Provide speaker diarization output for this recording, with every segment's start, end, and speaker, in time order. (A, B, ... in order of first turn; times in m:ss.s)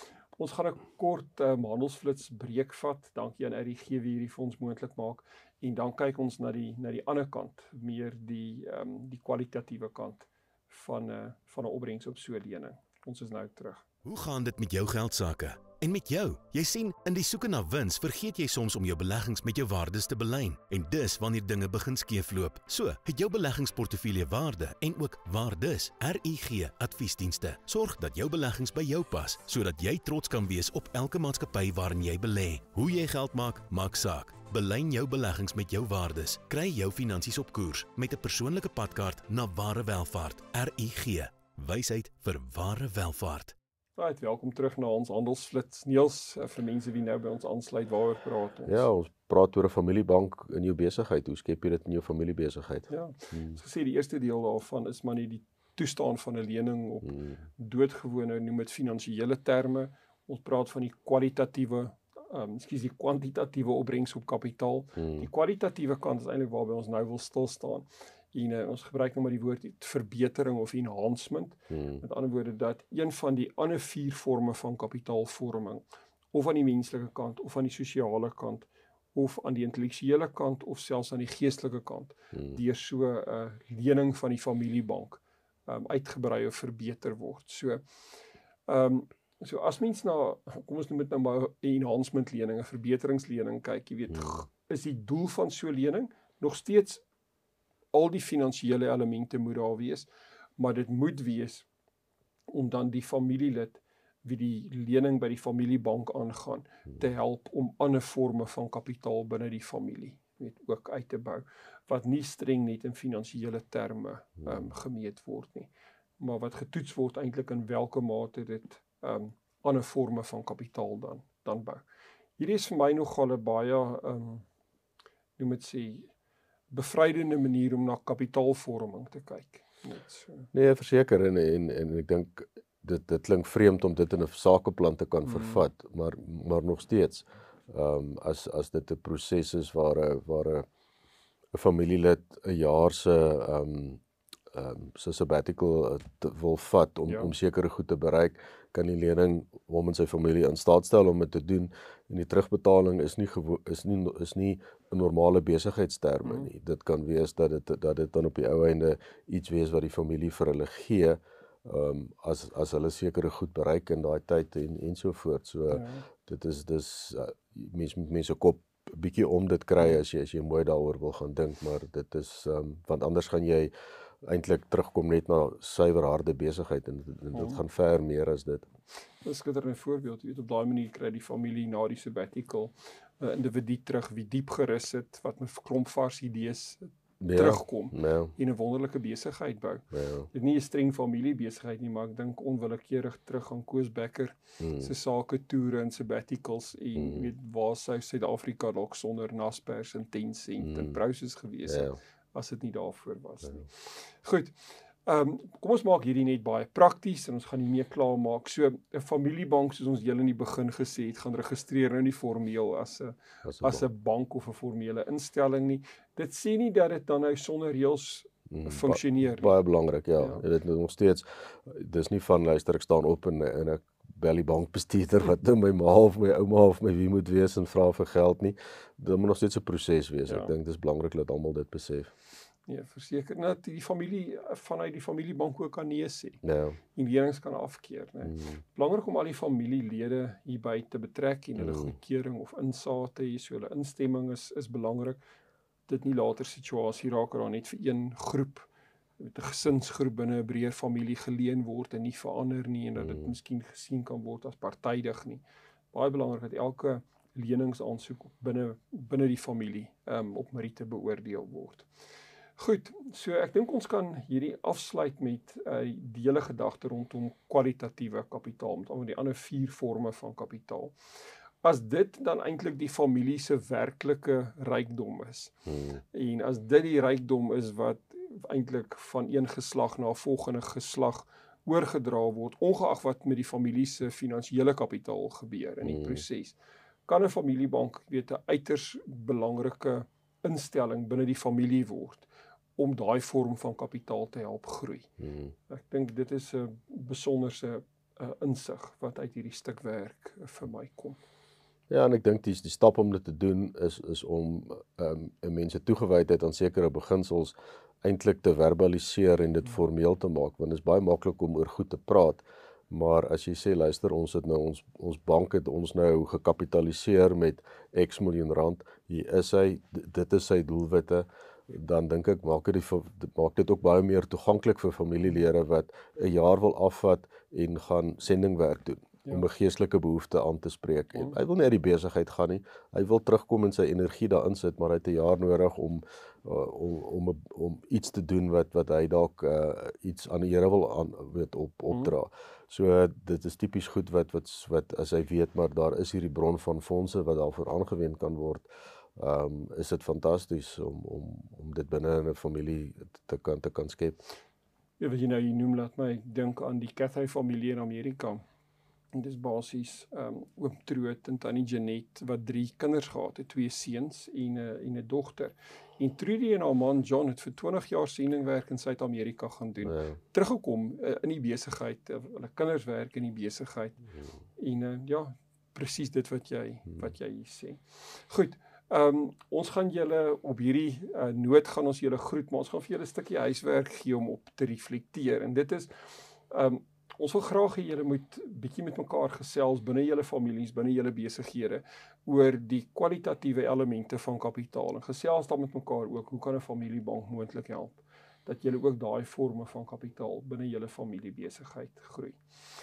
0:00.3-0:13.8 A
0:14.0-0:43.6 B
0:44.0-0:48.9 A
0:48.7-0:53.6 C
0:52.9-1:27.8 A
0:57.0-0:57.4 C
1:05.0-1:05.3 C
1:11.7-1:12.0 C
1:22.3-1:22.6 C
1:28.7-1:37.0 A
1:37.9-1:41.7 A
1:42.5-2:01.8 A
2:02.4-2:04.4 A
2:05.4-2:06.1 A
2:06.7-2:10.5 A
2:10.5-2:20.6 C
2:15.2-2:15.6 A
2:21.5-2:24.0 C
2:24.5-2:53.7 C
2:27.1-2:27.3 A
2:36.2-2:36.5 A
2:45.7-2:46.1 A
2:54.2-2:58.7 C
2:57.3-2:57.6 A
2:59.2-3:39.6 A
3:07.2-3:08.4 C
3:09.9-3:10.3 C
3:14.6-3:14.9 C
3:17.0-3:17.3 C
3:20.6-3:21.0 C
3:21.6-3:22.0 C
3:33.4-3:33.9 C
3:38.5-3:52.1 C
3:40.2-3:40.4 A
3:50.3-3:50.5 A
3:52.7-3:56.4 A
3:56.4-3:56.8 C
3:56.9-4:05.2 A
3:58.2-3:58.6 C
4:01.6-4:02.0 C
4:05.9-4:21.9 A
4:13.0-4:13.3 C
4:22.6-4:31.0 A
4:31.6-4:55.1 A
4:35.7-4:36.0 C
4:45.8-4:46.2 C
4:55.2-4:55.5 C
4:55.7-5:01.2 A
5:01.9-5:54.2 C
5:55.0-5:58.4 A
5:59.1-6:42.4 A
6:09.8-6:10.2 C